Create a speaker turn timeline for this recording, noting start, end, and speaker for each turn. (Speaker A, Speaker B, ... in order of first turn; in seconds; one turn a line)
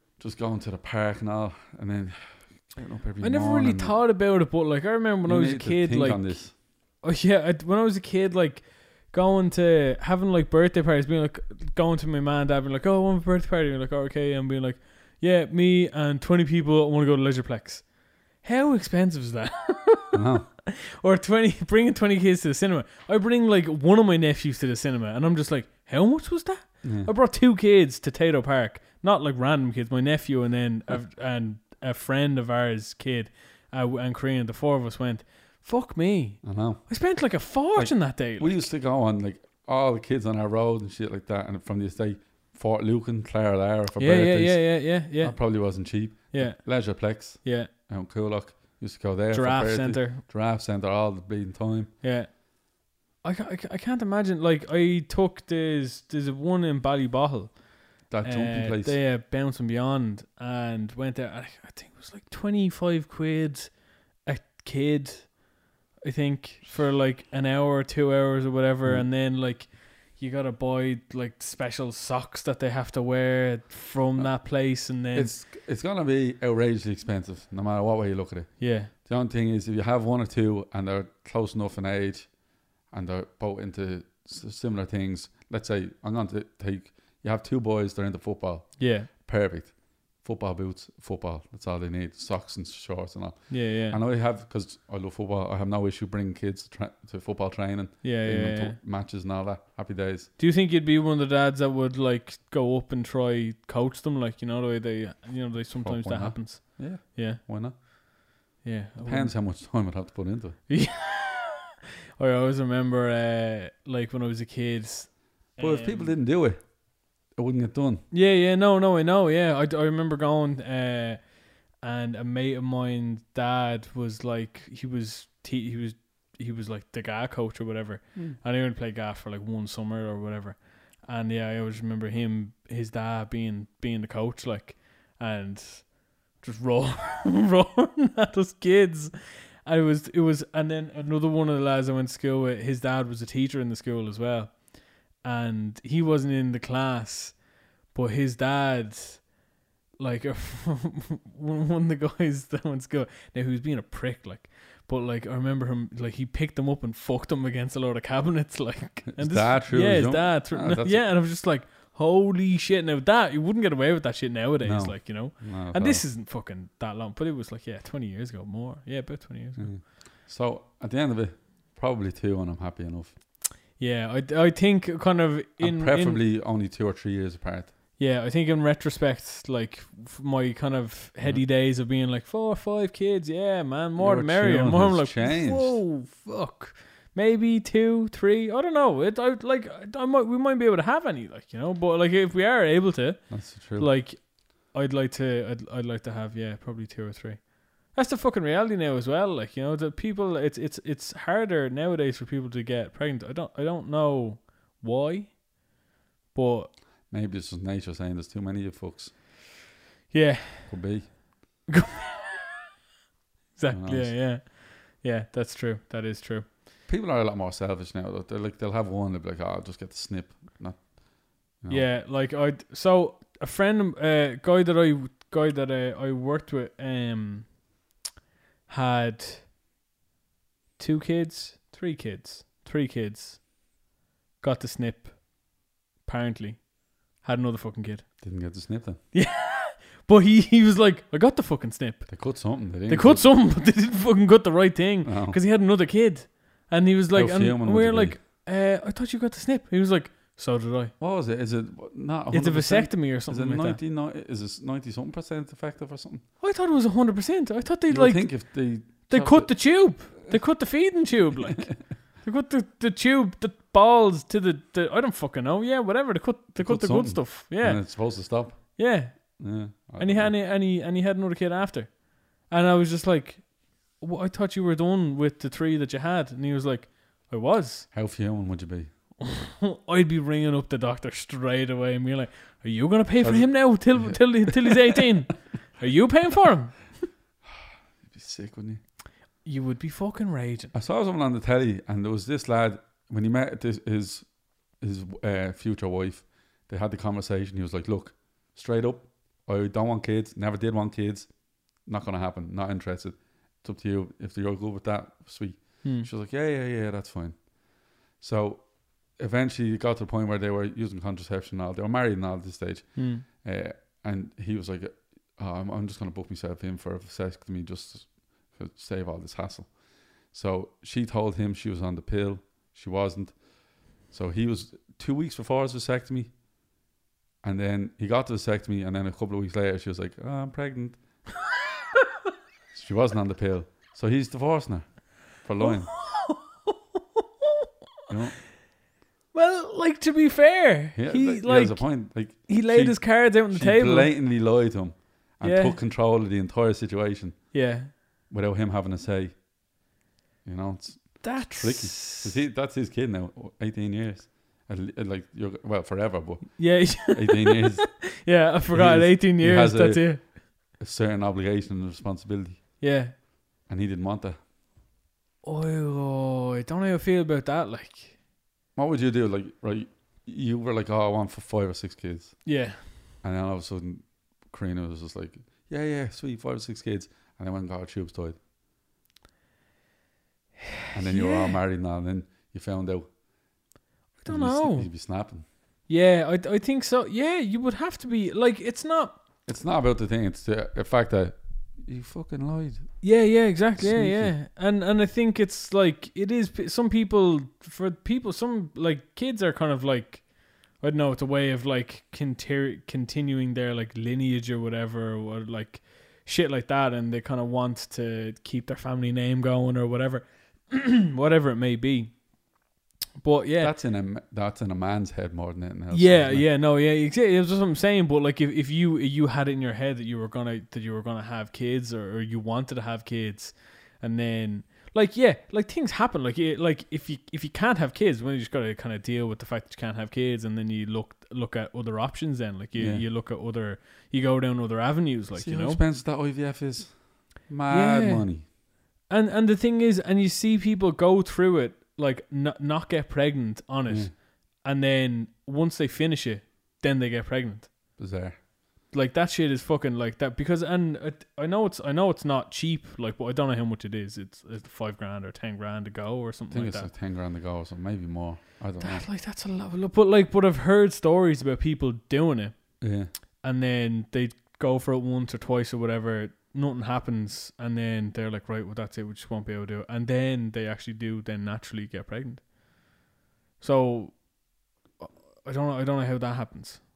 Speaker A: 0.2-4.0
Speaker B: 3.2-38.7
Speaker A: 5.2-6.5
Speaker A: 20.1-20.5
Speaker A: 26.8-27.1
Speaker A: 36.4-51.9
Speaker B: 44.0-47.7
Speaker B: 49.3-50.2
Speaker B: 52.0-65.5
Speaker A: 58.1-59.0
Speaker B: 66.0-75.4
Speaker A: 68.8-69.1
Speaker A: 74.2-100.3
Speaker B: 78.6-78.9
Speaker B: 88.8-89.1
Speaker B: 93.5-94.0
Speaker B: 98.0-98.8
Speaker B: 100.4-108.0
Speaker A: 105.8-107.8
Speaker B: 108.6-109.4
Speaker A: 109.0-110.6
Speaker B: 110.7-111.7
Speaker B: 112.2-116.2
Speaker A: 115.6-118.0
Speaker B: 118.1-149.4
Speaker B: 150.0-169.7
Speaker A: 159.1-161.1
Speaker A: 164.6-166.1
Speaker A: 169.6-173.2
Speaker B: 173.7-176.2
Speaker A: 175.6-177.7
Speaker B: 178.0-205.7
Speaker A: 184.0-185.8
Speaker A: 193.3-193.9
Speaker B: 206.3-206.8
Speaker A: 207.1-209.1
Speaker B: 210.1-211.1
Speaker A: 210.7-211.2
Speaker B: 211.7-212.6
Speaker B: 213.6-216.5
Speaker A: 213.7-214.2
Speaker A: 216.9-221.9
Speaker B: 221.7-227.6
Speaker B: 228.7-229.5
Speaker B: 230.8-233.5
Speaker B: 234.4-238.1
Speaker A: 238.2-239.0
Speaker B: 239.1-250.9
Speaker A: 242.1-243.3
Speaker A: 245.0-245.4
Speaker A: 247.1-248.2
Speaker A: 251.0-256.2
Speaker B: 252.3-253.8
Speaker B: 256.4-269.4
Speaker A: 257.9-260.4
Speaker A: 266.6-270.3
Speaker B: 270.0-277.9
Speaker A: 277.9-278.9
Speaker B: 279.2-287.1
Speaker A: 283.2-285.1
Speaker A: 287.5-288.8
Speaker B: 289.4-290.7
Speaker A: 290.7-326.4
Speaker B: 305.8-306.1
Speaker B: 313.0-313.2
Speaker A: 327.4-331.2
Speaker A: 332.7-336.0
Speaker B: 335.6-337.2
Speaker A: 338.1-338.4
Speaker B: 339.3-344.1
Speaker A: 340.9-347.6
Speaker B: 345.4-345.8
Speaker B: 347.5-347.9
Speaker A: 348.3-349.4
Speaker A: 350.4-362.9
Speaker B: 351.2-352.4
Speaker B: 356.6-360.3
Speaker B: 362.8-363.1
Speaker A: 363.7-364.4
Speaker B: 365.4-368.2
Speaker A: 368.8-372.5
Speaker B: 372.4-372.8
Speaker A: 373.2-378.4
Speaker A: 380.9-383.1
Speaker B: 381.1-381.6
Speaker B: 384.2-384.9
Speaker A: 384.2-385.5
Speaker B: 385.9-389.2
Speaker A: 389.4-394.4
Speaker B: 393.0-412.3
Speaker B: 413.2-413.8
Speaker A: 413.6-416.5
Speaker B: 415.9-435.8
Speaker A: 432.8-433.1
Speaker A: 435.4-438.4
Speaker B: 437.7-438.5
Speaker B: 439.1-448.0
Speaker A: 443.9-444.1
Speaker A: 448.0-448.4
Speaker B: 448.9-456.9
Speaker A: 456.5-459.1
Speaker B: 458.8-472.9
Speaker A: 462.8-463.1
Speaker B: 473.6-474.4
Speaker B: 475.0-476.8